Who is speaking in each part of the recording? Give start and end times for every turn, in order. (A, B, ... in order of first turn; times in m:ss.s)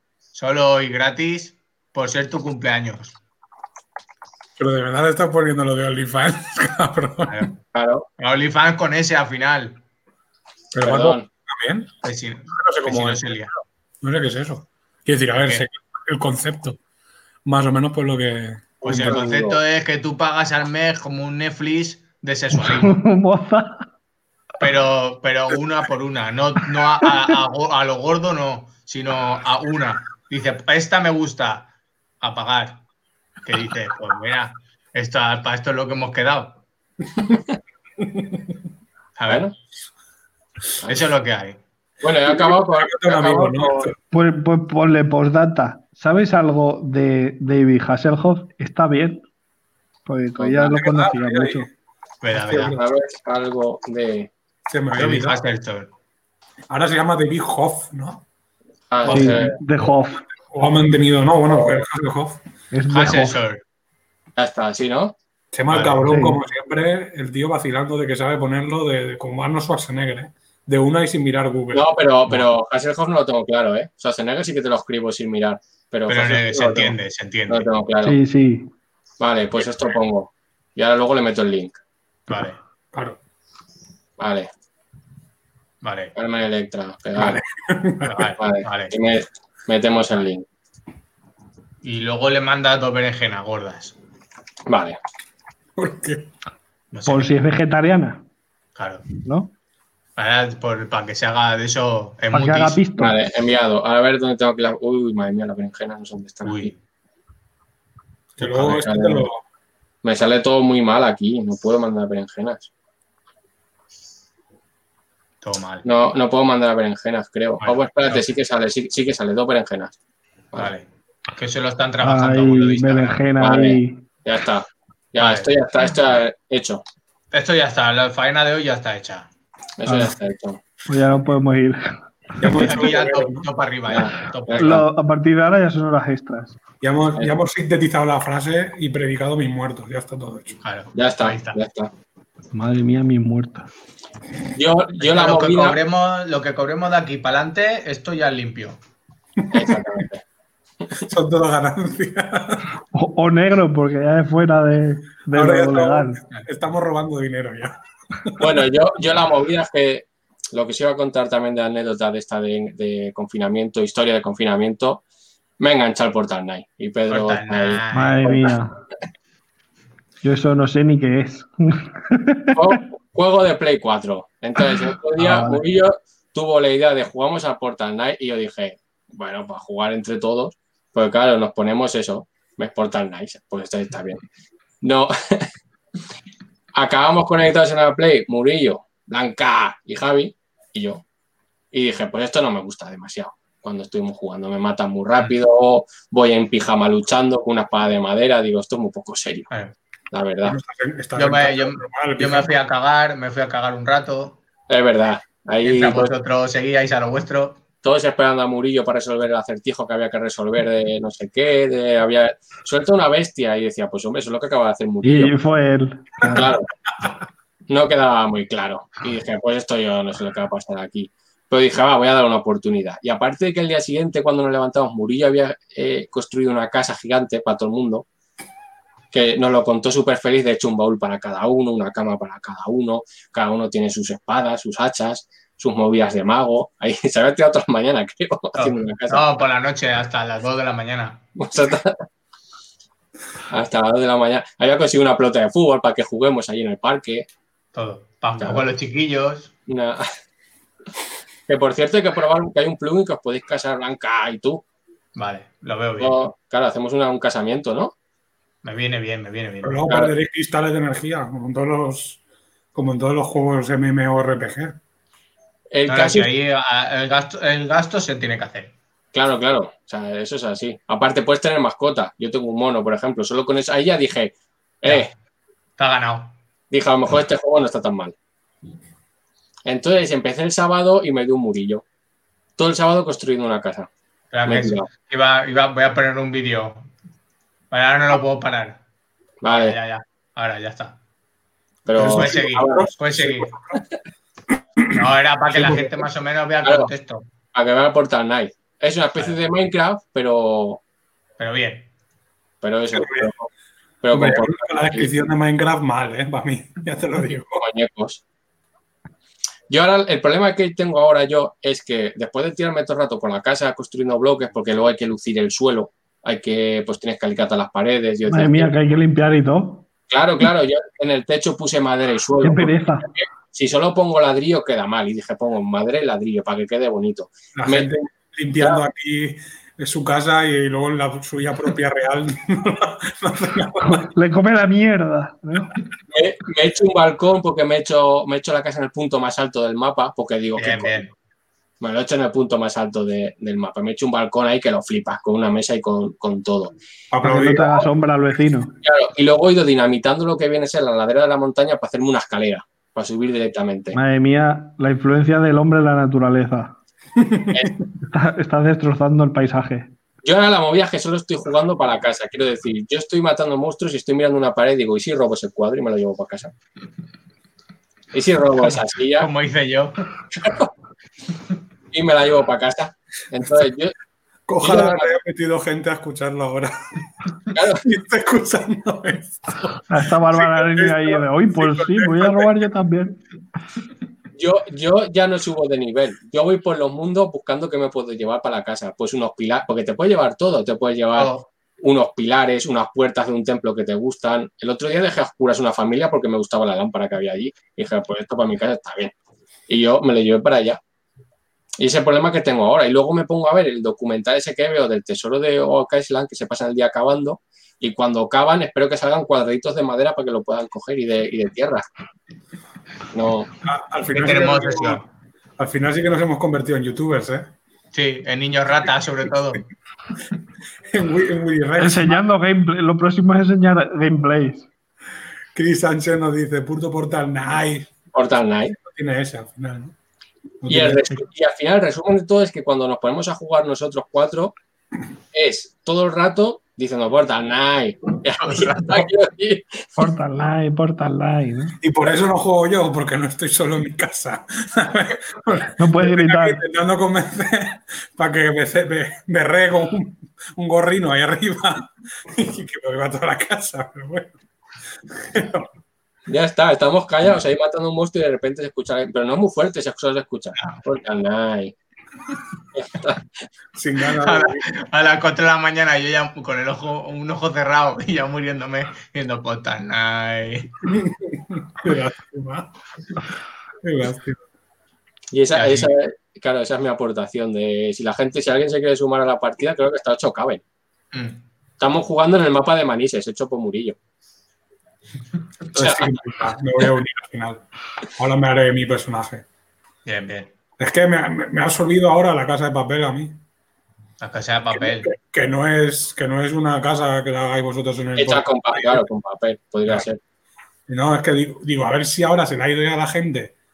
0:00.4-0:03.2 A
0:04.6-0:07.5 B
0:07.3-0:07.6 A
0:07.7-0:08.1 C
0:08.2-0:09.8 A
0:10.7-0:11.9 B
0:10.8-0:11.3 C
0:12.0-0:13.5 A
0:12.5-0:13.5 B
0:14.0-0:16.8 B
0:15.4-0:15.7 A
0:17.4-0:19.2 B
0:18.8-0:23.0 A
0:18.8-0:19.6 C
0:22.5-0:23.9 D
0:24.6-0:31.7 A
0:32.2-0:32.8 A
0:33.4-0:36.6 A
0:38.0-0:38.4 B
0:39.2-0:39.5 A
0:40.9-0:41.6 A
0:42.0-0:43.9 C
0:42.3-0:44.0 B
0:44.1-0:49.3 D
0:50.1-0:51.7 D
0:50.4-0:50.7 C
0:50.6-0:51.7 B
0:52.2-0:52.8 A
0:52.3-0:52.8 B
0:52.7-0:54.3 C
0:54.7-0:55.4 B
0:55.0-0:55.9 A
0:56.7-0:58.2 B
0:58.9-0:59.6 C
0:59.0-0:59.6 B
0:59.1-1:00.2 D
1:00.4-1:02.4 B
1:01.5-1:01.8 C
1:02.7-1:03.4 D
1:02.9-1:03.6 A
1:04.4-1:05.2 C
1:05.5-1:12.4 B
1:05.7-1:06.0 A
1:06.1-1:06.4 D
1:11.7-1:17.0 C
1:16.1-1:17.7 A
1:17.5-1:18.2 C
1:18.0-1:18.7 D
1:19.2-1:21.8 C
1:22.3-1:22.6 A
1:22.9-1:23.2 B
1:24.2-1:24.5 C
1:25.8-1:26.1 A
1:26.2-1:27.4 C
1:27.2-1:28.3 B
1:28.0-1:29.0 A
1:28.4-1:30.4 C
1:31.8-1:34.0 A
1:34.7-1:35.0 C
1:35.8-1:36.3 B
1:36.9-1:37.4 A
1:37.1-1:38.2 D
1:38.8-1:39.0 A
1:39.2-1:39.5 D
1:40.2-1:42.8 A
1:42.3-1:43.1 D
1:43.0-1:46.7 C
1:46.4-1:46.8 A
1:48.4-1:49.4 B
1:48.4-1:49.2 C
1:50.0-1:52.7 C
1:55.4-1:55.8 A
1:55.8-1:59.9 C
1:57.6-1:58.2 A
2:00.6-2:00.8 A
2:01.4-2:03.2 A
2:02.0-2:04.0 D
2:03.4-2:06.8 C
2:05.2-2:05.5 A
2:07.3-2:09.3 A
2:09.8-2:10.6 C
2:09.9-2:10.2 D
2:10.9-2:12.7 D
2:12.4-2:13.5 B
2:12.5-2:14.8 A
2:13.9-2:14.9 C
2:14.6-2:16.6 D
2:16.8-2:20.6 B
2:20.6-2:21.6 A
2:21.0-2:21.9 C
2:22.5-2:23.7 D
2:24.6-2:25.8 C
2:25.0-2:28.8 A
2:29.4-2:30.0 B
2:29.5-2:30.2 C
2:31.1-2:32.7 B
2:32.9-2:36.2 D
2:35.3-2:38.6 B
2:38.4-2:45.0 C
2:45.6-2:48.5 C
2:47.1-2:48.5 A
2:47.9-2:48.7 D
2:50.2-2:52.7 D
2:52.5-3:04.2 C
2:55.2-2:55.6 D
3:04.8-3:05.5 C
3:06.8-3:11.0 C
3:11.7-3:19.5 C
3:19.5-3:19.8 A
3:20.1-3:20.6 C
3:20.4-3:22.5 B
3:21.2-3:24.4 A
3:24.7-3:26.1 C
3:25.6-3:27.6 A
3:27.8-3:35.4 C
3:35.0-3:36.5 D
3:36.2-3:36.7 C
3:37.7-3:48.0 C
3:49.1-3:59.3 C
3:58.6-4:01.2 A
4:01.4-4:02.0 C
4:03.5-4:07.2 C
4:07.7-4:09.5 A
4:09.7-4:10.0 C
4:11.5-4:14.6 C
4:15.2-4:16.2 A
4:16.0-4:17.9 C
4:18.6-4:19.9 A
4:19.6-4:22.2 B
4:22.7-4:24.8 B
4:25.7-4:26.3 C
4:25.9-4:28.7 A
4:29.1-4:35.1 C
4:35.8-4:36.4 A
4:36.7-4:38.1 C
4:39.7-4:41.8 C
4:42.6-4:43.9 C
4:44.3-4:46.9 A
4:44.5-4:44.9 C
4:47.7-4:48.8 A
4:49.4-4:49.8 C
4:49.4-4:51.0 A
4:51.9-4:52.9 C
4:52.0-4:53.5 A
4:52.0-4:53.8 B
4:54.8-4:55.9 B
4:54.9-4:57.3 A
4:56.6-4:56.9 C
4:57.5-5:00.8 C
5:01.4-5:01.9 A
5:02.6-5:03.5 C
5:03.0-5:03.3 B
5:04.0-5:05.1 C
5:04.1-5:07.6 B
5:07.6-5:08.2 C
5:09.7-5:18.7 C
5:18.3-5:19.8 D
5:20.1-5:27.9 C
5:22.4-5:23.1 D
5:27.6-5:34.1 B
5:33.8-5:35.7 D
5:36.1-5:41.0 C
5:40.6-5:41.1 A
5:41.8-5:46.8 C
5:47.1-5:47.9 B
5:47.2-5:48.8 D
5:48.8-5:54.0 C
5:53.9-5:56.8 D
5:57.2-5:57.7 B
5:57.5-5:57.8 C
5:58.1-5:59.9 D
6:00.2-6:06.5 C
6:08.1-6:09.3 C
6:08.6-6:10.1 A
6:10.4-6:10.7 C
6:11.9-6:14.0 C
6:14.5-6:16.8 B
6:14.6-6:15.1 C
6:17.5-6:17.8 C
6:17.6-6:22.5 B
6:19.9-6:23.2 D
6:24.4-6:39.1 C
6:31.2-6:31.4 A
6:39.7-6:40.8 C
6:41.8-6:51.9 C
6:53.1-6:53.5 C
6:53.6-6:55.0 B
6:54.1-6:55.0 A
6:55.6-6:57.5 B
6:57.9-6:59.6 A
7:00.9-7:02.2 B
7:01.8-7:04.7 D
7:05.5-7:07.9 B
7:08.1-7:08.8 C
7:08.8-7:10.0 B
7:10.6-7:11.2 B
7:10.7-7:14.6 C
7:15.3-7:20.1 C
7:18.4-7:19.1 A
7:20.0-7:21.8 D
7:21.8-7:34.4 B
7:25.8-7:26.6 D
7:35.1-7:35.7 B
7:36.3-7:41.8 C
7:42.8-7:43.2 C
7:43.7-7:44.7 B
7:44.2-7:50.8 A
7:50.8-7:52.7 B
7:53.8-7:54.4 B
7:55.3-8:00.6 C
7:55.5-7:55.9 A
8:01.1-8:01.4 A
8:01.8-8:04.0 C
8:05.7-8:07.6 B
8:05.8-8:06.1 C
8:08.2-8:09.4 B
8:10.0-8:10.5 A
8:10.8-8:13.4 B
8:14.2-8:15.1 A
8:14.7-8:18.5 B
8:18.2-8:20.2 C
8:18.7-8:19.0 A
8:20.9-8:23.5 B